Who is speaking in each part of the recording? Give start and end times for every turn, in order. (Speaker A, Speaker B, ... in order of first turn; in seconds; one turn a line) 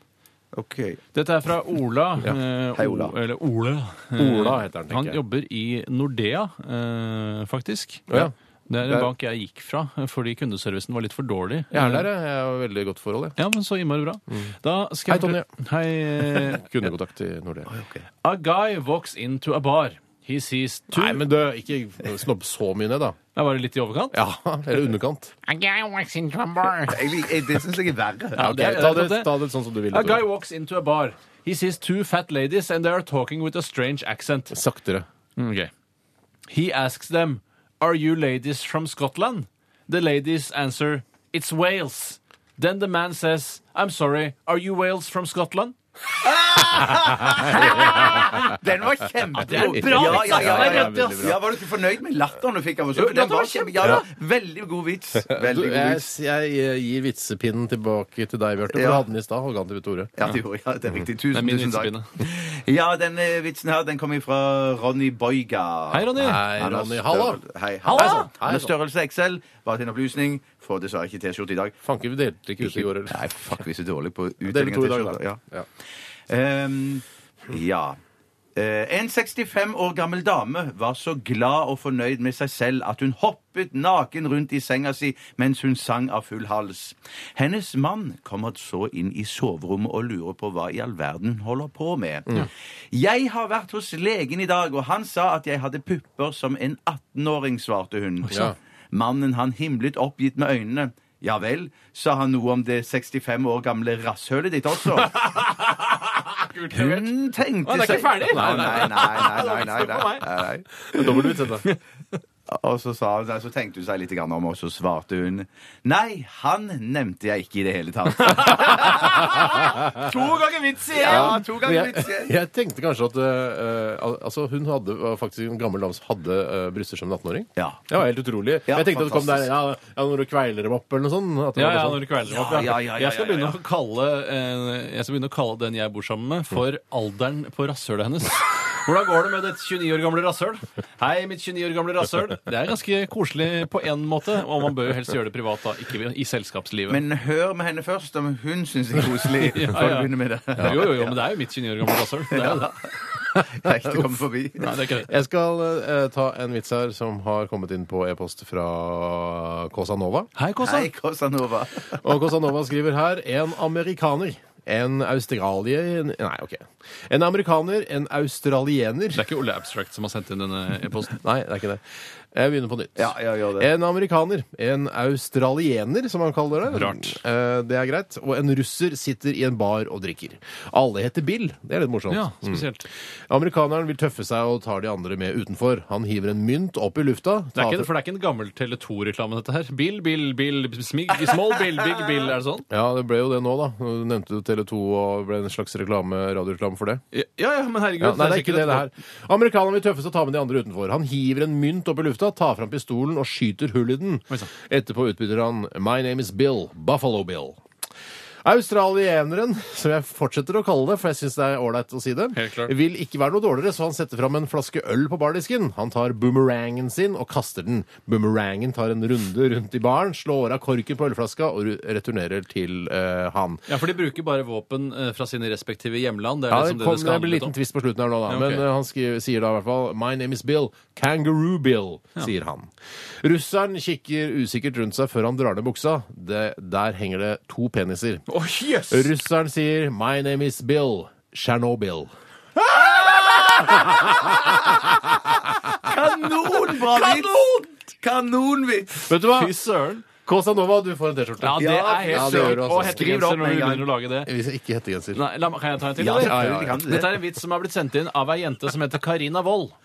Speaker A: 0.5-1.0
Speaker B: 1.1-12.1
Speaker A: 2.8-3.1
Speaker C: 4.2-5.2
Speaker C: 8.1-9.1
Speaker C: 11.7-13.4
Speaker B: 13.4-16.7
Speaker C: 15.1-15.5
Speaker C: 16.2-17.7
Speaker A: 17.7-18.1
Speaker B: 18.2-21.2
Speaker C: 20.9-23.2
Speaker B: 23.4-24.2
Speaker C: 24.1-25.4
Speaker B: 25.5-27.1
Speaker A: 26.9-28.6
Speaker B: 28.4-29.3
Speaker C: 28.4-30.2
Speaker B: 29.9-34.6
Speaker C: 34.5-35.1
Speaker B: 35.4-35.7
Speaker B: 36.5-45.8
Speaker A: 46.2-56.1
Speaker B: 46.3-48.5
Speaker C: 47.6-48.2
Speaker B: 49.4-51.4
Speaker C: 49.6-51.4
Speaker B: 53.0-54.1
Speaker C: 55.2-60.1
Speaker A: 58.7-59.0
Speaker A: 60.2-71.8
Speaker B: 61.3-62.2
Speaker B: 65.9-66.5
Speaker C: 66.2-67.4
Speaker B: 67.8-68.3
Speaker C: 67.9-68.7
Speaker C: 71.8-73.2
Speaker A: 72.6-75.4
Speaker C: 74.4-75.7
Speaker A: 76.3-78.0
Speaker A: 78.6-92.4
Speaker A: 92.9-105.2
Speaker C: 98.3-98.6
Speaker B: 104.9-110.3
Speaker A: 106.7-111.1
Speaker C: 108.3-108.9
Speaker C: 110.9-111.7
Speaker B: 111.0-111.8
Speaker A: 112.5-119.2
Speaker B: 118.2-121.5
Speaker C: 119.6-120.0
Speaker A: 120.9-122.3
Speaker C: 121.0-132.0
Speaker A: 127.6-127.9
Speaker A: 128.7-129.5
Speaker B: 131.6-147.0
Speaker A: 132.3-133.6
Speaker A: 146.9-151.2
Speaker B: 149.4-152.8
Speaker A: 152.3-154.8
Speaker B: 154.6-155.1
Speaker C: 155.1-160.3
Speaker B: 160.4-160.9
Speaker A: 160.6-162.0
Speaker C: 162.0-169.2
Speaker B: 169.2-171.2
Speaker C: 171.2-182.7
Speaker A: 173.0-173.7
Speaker B: 176.7-177.2
Speaker B: 182.1-182.9
Speaker C: 183.3-187.9
Speaker B: 187.6-192.7
Speaker C: 192.7-197.0
Speaker B: 197.1-198.9
Speaker C: 198.0-207.6
Speaker C: 208.4-223.7
Speaker B: 212.3-212.7
Speaker B: 223.7-227.5
Speaker C: 226.5-238.3
Speaker B: 228.3-228.6
Speaker B: 238.3-239.1
Speaker C: 238.9-242.1
Speaker B: 242.7-244.6
Speaker A: 243.1-243.8
Speaker C: 243.7-245.3
Speaker A: 245.8-249.1
Speaker B: 246.7-247.6
Speaker C: 249.1-249.6
Speaker B: 249.2-250.1
Speaker C: 250.1-253.0
Speaker B: 251.4-254.3
Speaker A: 251.6-253.9
Speaker C: 254.2-255.2
Speaker B: 255.1-259.8
Speaker A: 256.0-257.2
Speaker C: 256.1-256.8